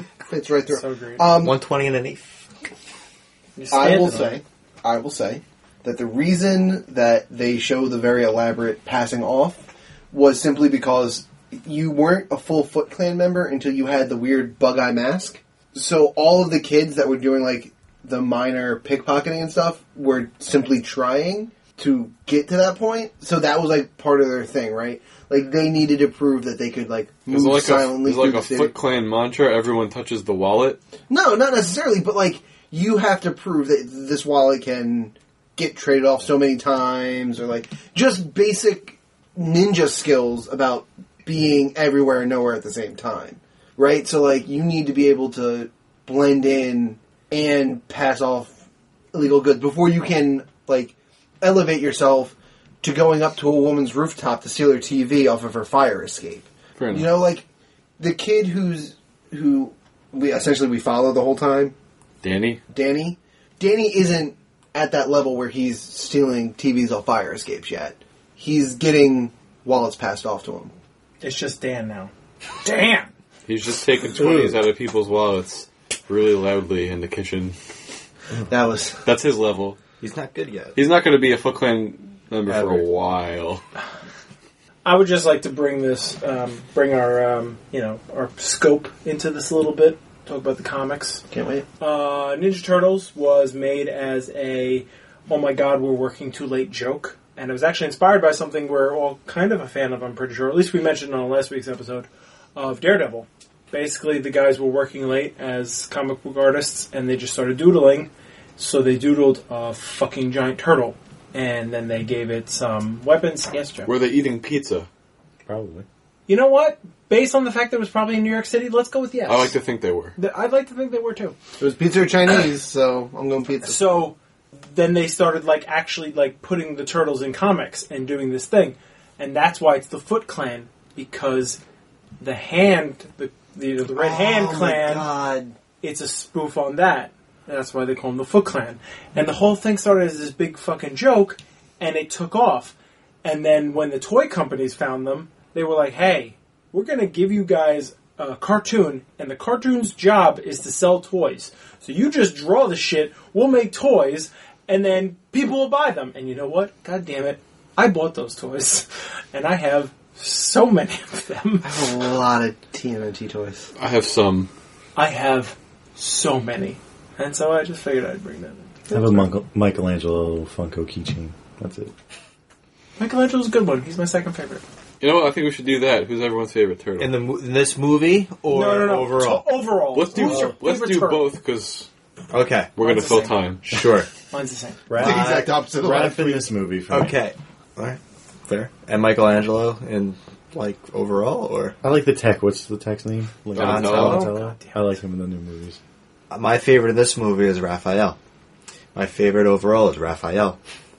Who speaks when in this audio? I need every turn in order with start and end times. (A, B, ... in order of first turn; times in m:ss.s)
0:00.3-0:01.6 A
0:00.7-0:01.2 B
0:01.4-0:02.4 C
0:03.6-0:04.4 B
0:03.7-0:28.7 A
0:27.3-0:30.8 D
0:31.1-0:48.6 A
0:49.1-0:57.4 A
0:56.8-0:57.1 D
0:58.0-1:01.7 A
1:02.2-1:02.6 D
1:02.7-1:10.7 A
1:11.2-1:12.1 B
1:12.6-1:13.1 B
1:13.4-1:17.5 D
1:14.2-1:14.5 E
1:18.4-1:19.0 A
1:19.0-1:19.8 D
1:20.0-1:20.8 C
1:20.8-1:23.6 D
1:22.5-1:22.9 C
1:24.8-1:31.2 B
1:31.3-1:31.6 A
1:31.8-1:53.9 B
1:53.8-1:54.9 D
1:55.5-1:55.8 E
1:56.3-1:59.5 B
1:59.3-2:00.1 D
2:00.2-2:01.3 B
2:01.6-2:04.0 A
2:03.6-2:11.6 B
2:12.2-2:15.1 B
2:14.0-2:15.5 C
2:15.8-2:42.1 B
2:41.6-2:43.7 A
2:43.8-2:44.5 D
2:45.0-2:48.9 B
2:48.9-2:51.9 E
2:53.0-2:54.6 B
2:55.0-2:57.1 D
2:57.0-2:59.5 C
2:58.5-3:01.3 B
2:59.9-3:01.9 D
3:02.3-3:02.7 C
3:02.8-3:03.6 D
3:02.8-3:03.4 B
3:03.6-3:04.1 C
3:04.3-3:04.8 B
3:04.9-3:07.2 E
3:04.9-3:05.6 C
3:05.0-3:06.5 A
3:06.9-3:11.8 C
3:11.8-3:15.8 E
3:13.5-3:14.2 D
3:13.6-3:14.3 C
3:13.6-3:14.9 B
3:16.3-3:18.2 C
3:18.9-3:20.6 C